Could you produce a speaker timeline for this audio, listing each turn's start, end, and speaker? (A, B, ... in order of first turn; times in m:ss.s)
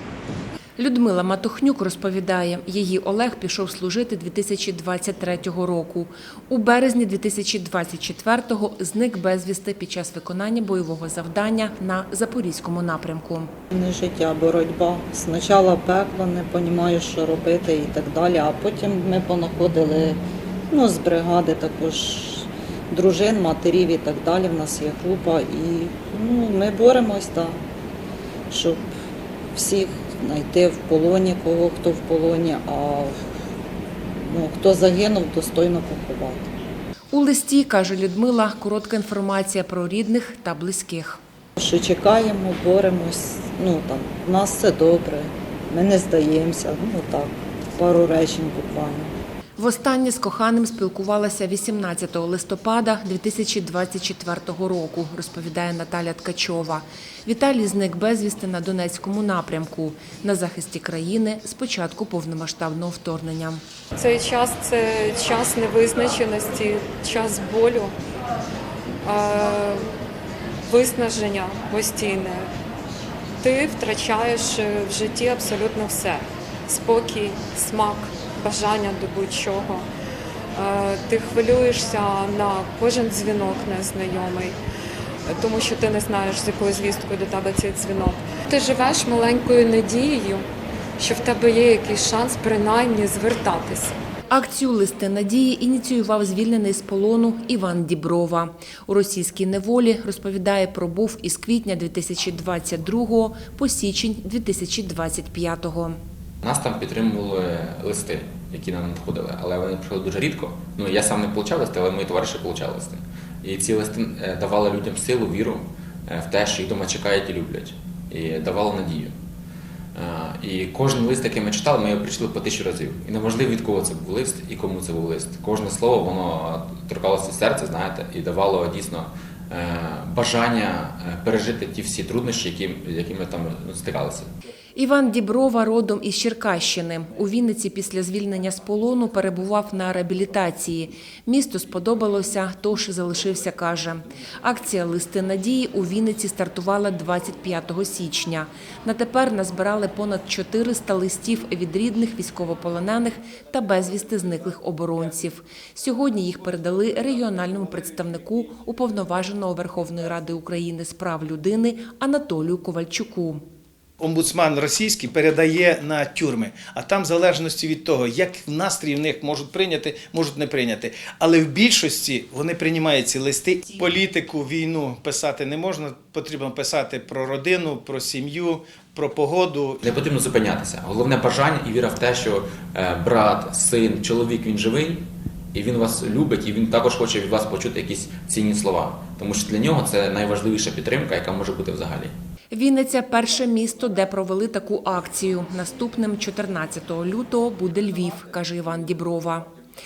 0:00.8-0:13.5 A
0:13.7-0:27.6 B
0:28.5-0:28.9 B
0:29.6-0:33.2 B
0:34.2-0:36.5 B
0:37.1-0:41.2 A
0:41.6-0:49.1 B
0:49.6-1:03.6 A
1:04.0-1:08.0 C
1:09.0-1:09.9 C
1:10.6-1:12.5 C
1:13.4-1:19.8 C
1:20.6-1:24.6 C
1:25.3-1:30.5 C
1:31.0-1:33.9 C
1:34.3-1:46.0 A
1:46.4-1:52.9 D
1:53.4-1:55.6 D
1:56.2-1:59.1 D
2:00.0-2:14.2 D
2:14.8-2:43.4 A
2:44.0-2:59.8 E
2:59.9-3:05.0 D
3:05.6-3:12.1 D
3:12.5-3:19.5 A